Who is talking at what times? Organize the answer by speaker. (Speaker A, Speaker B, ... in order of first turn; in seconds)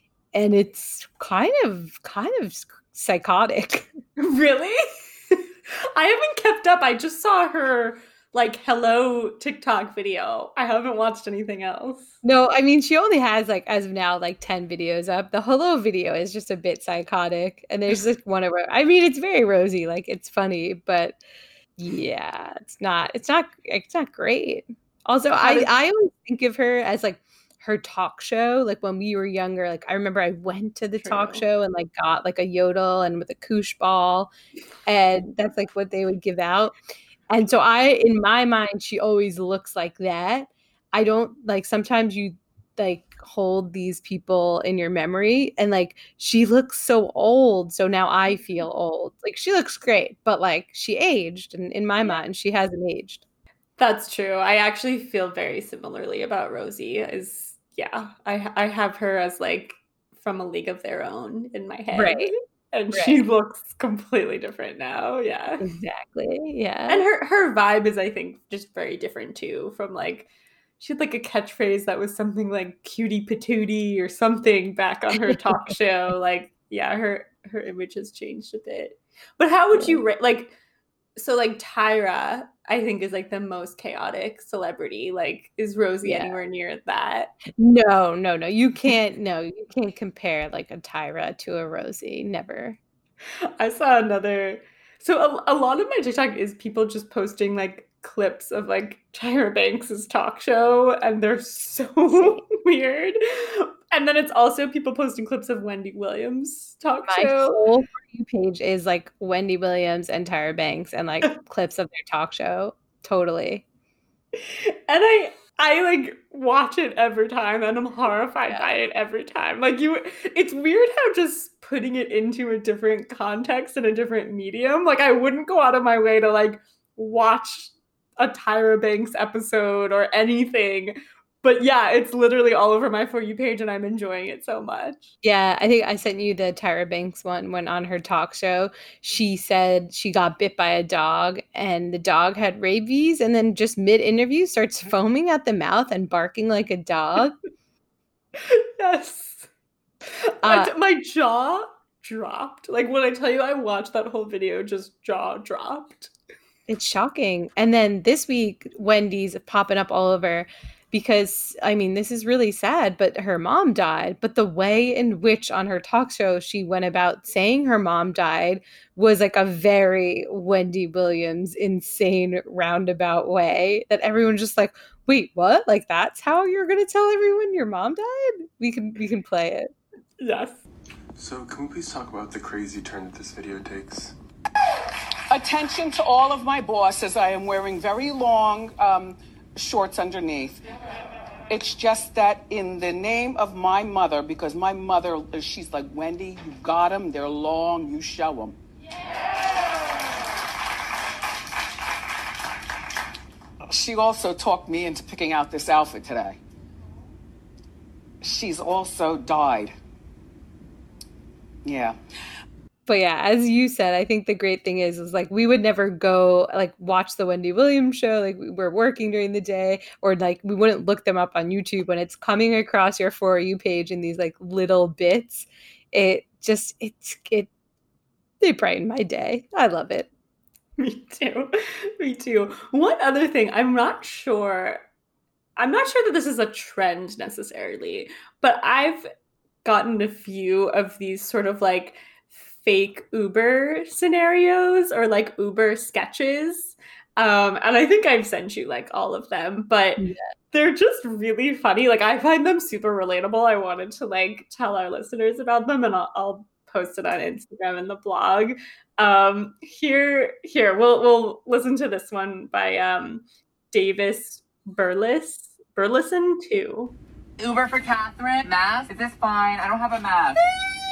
Speaker A: 0.3-3.9, 12.2-21.2, 21.8-34.3, 34.9-36.8, 37.3-53.2, 61.9-62.3, 65.6-67.0, 79.7-80.0, 86.0-86.4, 87.5-92.8, 102.1-102.4, 107.0-113.6, 135.2-147.3, 150.4-150.7, 156.7-179.7, 212.8-227.5, 228.4-230.1
Speaker B: 4.2-4.8, 5.9-12.1, 25.4-25.7, 31.0-31.4, 53.8-65.6, 66.9-70.3, 70.8-80.5, 81.2-87.3, 93.6-107.7, 114.4-135.1, 148.3-149.5, 150.1-156.1, 180.2-180.6, 230.8-234.8, 235.6-239.1, 239.6-266.9
Speaker C: 181.2-184.1
Speaker D: 185.3-190.6, 191.5-198.6, 203.7-206.4, 208.2-209.7, 211.6-212.0
Speaker E: 267.4-270.4